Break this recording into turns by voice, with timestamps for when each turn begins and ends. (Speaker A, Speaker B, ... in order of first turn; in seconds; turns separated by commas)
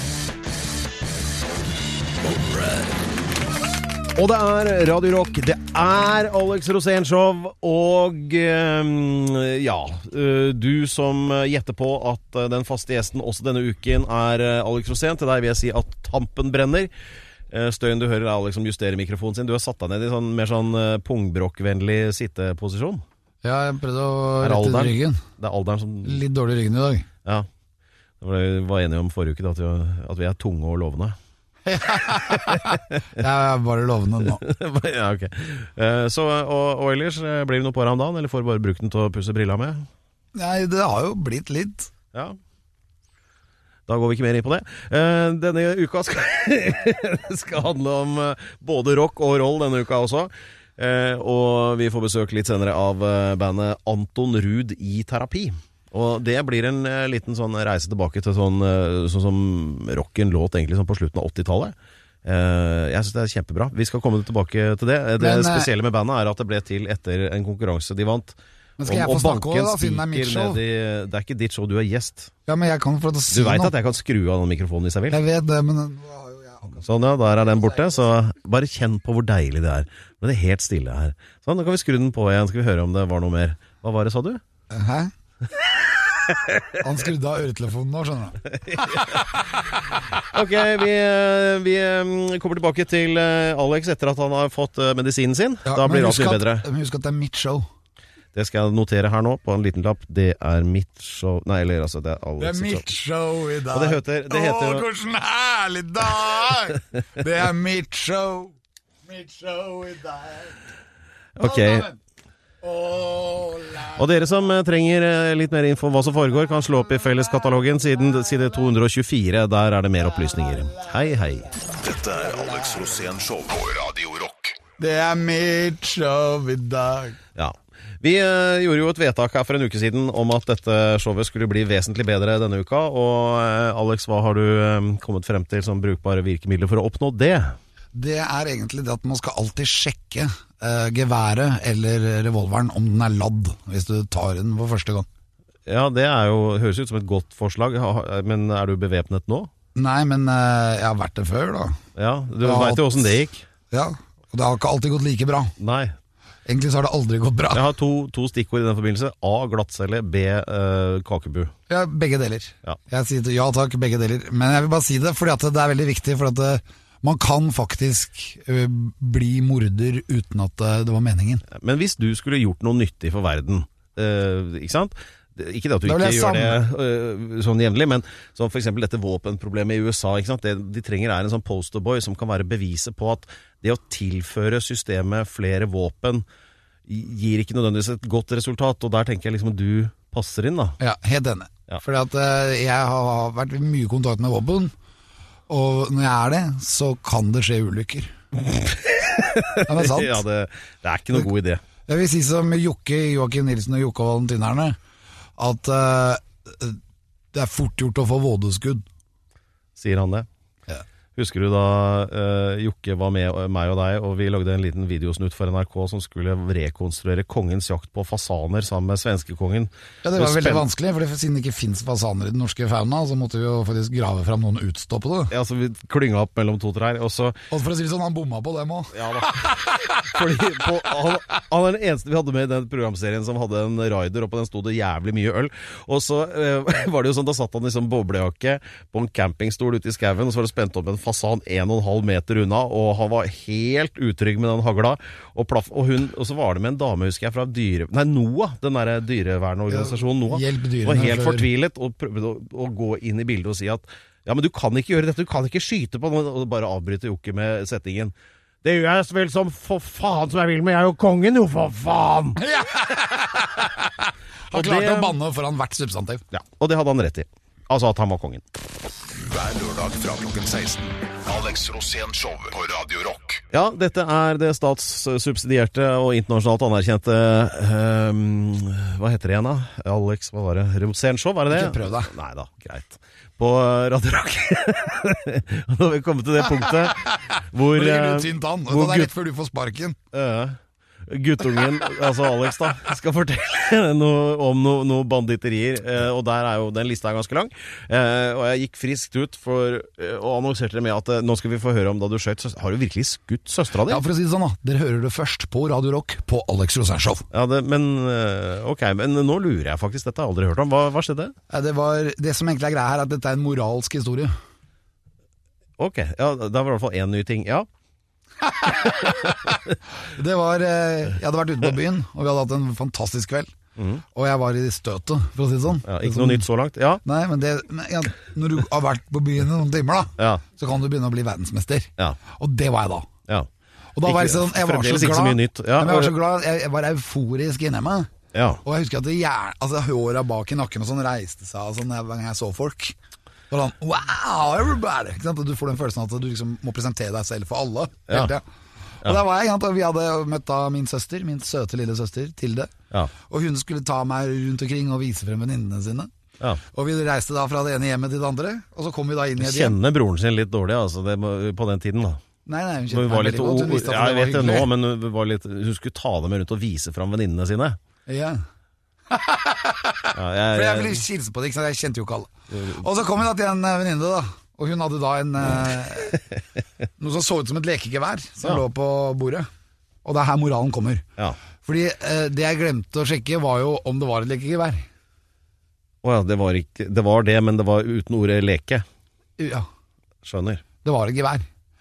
Speaker A: 2.2-2.9, Speaker B: 4.2-16.9, Speaker B: 17.5-23.0, Speaker A: 23.4-25.2, Speaker B: 24.4-26.2, Speaker A: 26.0-27.1, Speaker B: 28.2-31.2, Speaker A: 31.7-34.4, Speaker B: 34.3-39.9, Speaker A: 40.4-41.9, Speaker B: 42.1-42.4, Speaker B: 43.9-72.3, Speaker A: 65.2-65.7, Speaker A: 68.8-70.6, Speaker A: 72.5-73.7, Speaker B: 73.3-75.2, Speaker A: 75.1-76.8, Speaker B: 76.8-84.4, Speaker A: 84.7-85.1, Speaker A: 86.8-88.4, Speaker B: 88.7-89.2, Speaker B: 90.2-96.7, Speaker A: 95.7-97.7, Speaker B: 98.3-102.8, Speaker A: 102.4-108.5, Speaker B: 103.7-104.9, Speaker A: 109.1-110.6, Speaker B: 111.4-111.9, Speaker A: 111.4-112.0, Speaker A: 112.6-114.0, Speaker B: 113.9-121.5, Speaker C: 121.8-124.6, Speaker A: 124.8-127.2, Speaker B: 127.4-137.6, Speaker A: 137.9-145.1, Speaker B: 145.7-149.5, Speaker A: 149.8-151.8, Speaker B: 151.9-153.5, Speaker A: 152.4-153.0, Speaker A: 153.7-155.5, Speaker B: 155.6-155.9, Speaker A: 156.5-157.6, Speaker B: 157.5-161.5, Speaker A: 161.7-171.4, Speaker B: 171.5-186.3, Speaker A: 175.8-176.6, Speaker B: 186.9-190.8, Speaker A: 190.8-194.7, Speaker A: 195.5-198.1, Speaker B: 198.8-201.6, Speaker A: 199.6-200.2, Speaker A: 201.9-204.8, Speaker A: 205.4-206.8, Speaker A: 207.3-208.8, Speaker B: 209.8-210.3, Speaker B: 211.2-220.7, Speaker A: 220.0-225.3, Speaker B: 225.3-227.4, Speaker A: 227.5-230.1, Speaker B: 228.9-262.4, Speaker A: 249.7-251.5, Speaker A: 262.4-266.2, Speaker B: 264.5-265.2, Speaker B: 266.3-268.4, Speaker C: 269.2-273.4, Speaker B: 273.5-289.1, Speaker A: 281.5-282.1, Speaker A: 287.7-290.0, Speaker B: 290.1-304.0, Speaker A: 303.9-307.3, Speaker B: 307.3-311.3, Speaker A: 311.5-314.3, Speaker B: 315.8-317.7, Speaker A: 318.4-323.5, Speaker B: 323.8-324.0, Speaker A: 324.1-326.4, Speaker B: 325.9-327.0, Speaker A: 327.1-333.1, Speaker A: 334.0-338.1, Speaker B: 334.1-336.1, Speaker B: 338.3-338.6, Speaker A: 338.6-342.9, Speaker A: 343.5-348.4, Speaker A: 349.0-352.7, Speaker A: 353.3-356.1, Speaker A: 356.7-359.8, Speaker B: 359.4-362.2, Speaker A: 362.5-364.7, Speaker B: 362.9-367.8, Speaker A: 368.1-368.4, Speaker A: 369.1-376.2, Speaker B: 370.1-371.0, Speaker B: 372.5-372.8, Speaker A: 377.0-379.5, Speaker A: 380.1-381.1, Speaker A: 381.6-384.9, Speaker B: 386.0-388.9, Speaker A: 389.4-389.7, Speaker B: 390.2-390.6, Speaker A: 390.8-391.5